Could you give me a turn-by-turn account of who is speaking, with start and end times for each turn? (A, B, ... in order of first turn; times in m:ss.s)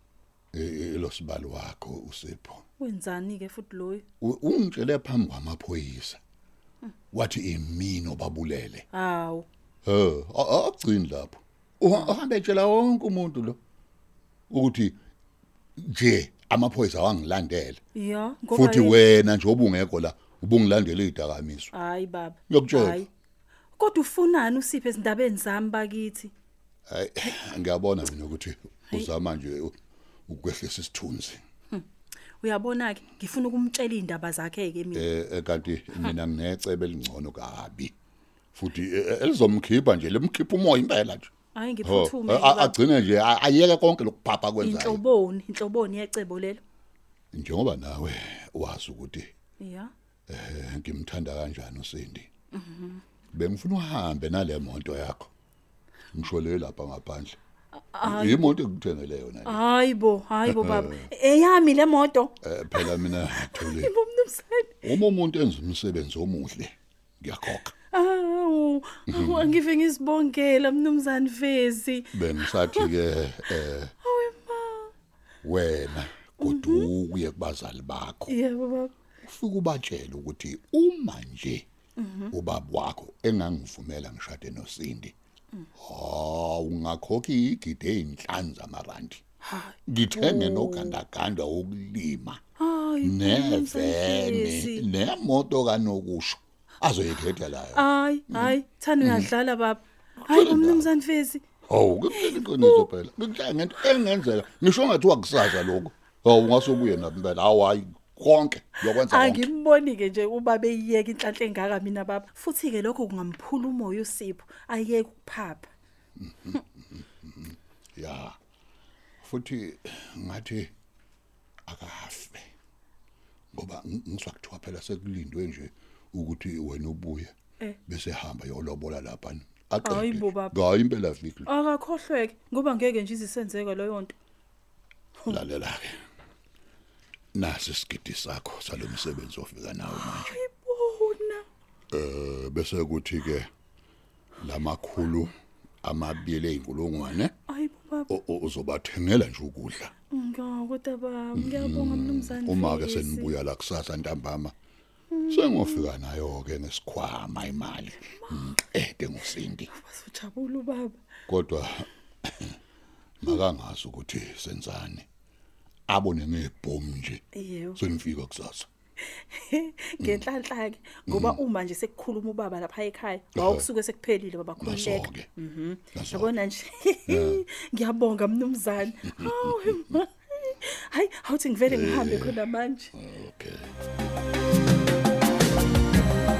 0:00.5-0:02.6 A
0:02.8-0:04.0 B
0:04.2-0:06.2 A
0:07.1-0:08.8 A
0:08.9-0:09.4 B
0:09.8-0:13.6 A
0:14.5-0:14.9 A
0:15.8-0:17.8 A
0:17.9-0:19.0 B
0:18.5-0:21.7 A
0:21.7-0:23.1 B
0:22.5-0:23.1 A
0:23.8-0:26.3 B
0:26.9-0:29.8 A
0:30.3-0:31.4 A
0:32.4-0:35.0 B
0:34.9-0:37.9 A
0:38.5-0:41.3 A
0:41.5-0:42.8 B
0:41.8-0:45.0 A
0:44.6-0:46.6 B
0:47.3-0:49.3 A
0:49.6-0:49.9 B
0:50.3-0:52.3 A
0:52.5-0:53.0 B
0:53.3-0:55.3 A
0:56.1-0:57.4 A
0:57.9-0:58.5 B
0:58.0-0:59.6 A
0:59.4-1:04.8 B
1:00.4-1:01.0 A
1:02.4-1:03.9 A
1:04.8-1:07.7 A
1:07.9-1:12.9 B
1:09.1-1:09.5 A
1:12.1-1:13.9 A
1:14.0-1:14.9 B
1:15.4-1:18.4 A
1:16.4-1:16.9 B
1:18.3-1:18.9 B
1:19.2-1:21.6 A
1:22.0-1:22.3 B
1:22.3-1:25.1 A
1:25.8-1:29.2 A
1:29.4-1:31.0 B
1:29.9-1:32.4 A
1:32.6-1:34.8 B
1:33.0-1:39.3 A
1:37.7-1:41.4 B
1:40.3-1:40.9 A
1:41.6-1:49.5 A
1:42.1-1:42.9 B
1:48.9-1:55.7 B
1:56.2-1:58.4 A
1:59.2-2:00.7 A
2:01.7-2:02.5 A
2:03.5-2:07.3 A
2:07.9-2:11.5 A
2:09.8-2:10.5 B
2:11.5-2:14.1 B
2:15.3-2:16.0 A
2:17.3-2:20.4 A
2:19.9-2:21.4 B
2:21.9-2:23.5 A
2:24.4-2:25.3 A
2:25.8-2:27.3 A
2:27.5-2:28.1 B
2:28.1-2:29.9 A
2:30.1-2:33.3 B
2:31.3-2:34.5 A
2:35.1-2:35.9 B
2:35.3-2:39.7 A
2:39.8-2:41.0 B
2:41.3-2:42.6 A
2:43.2-2:45.1 A
2:45.9-2:47.2 A
2:47.3-2:47.8 B
2:47.7-2:48.7 A
2:49.2-3:02.9 B
2:51.1-2:51.4 A
2:53.4-2:53.6 A
2:54.6-2:55.3 A
2:55.9-2:56.3 A
2:57.1-2:57.4 A
2:59.1-2:59.8 A
3:01.7-3:02.4 A
3:02.9-3:03.7 A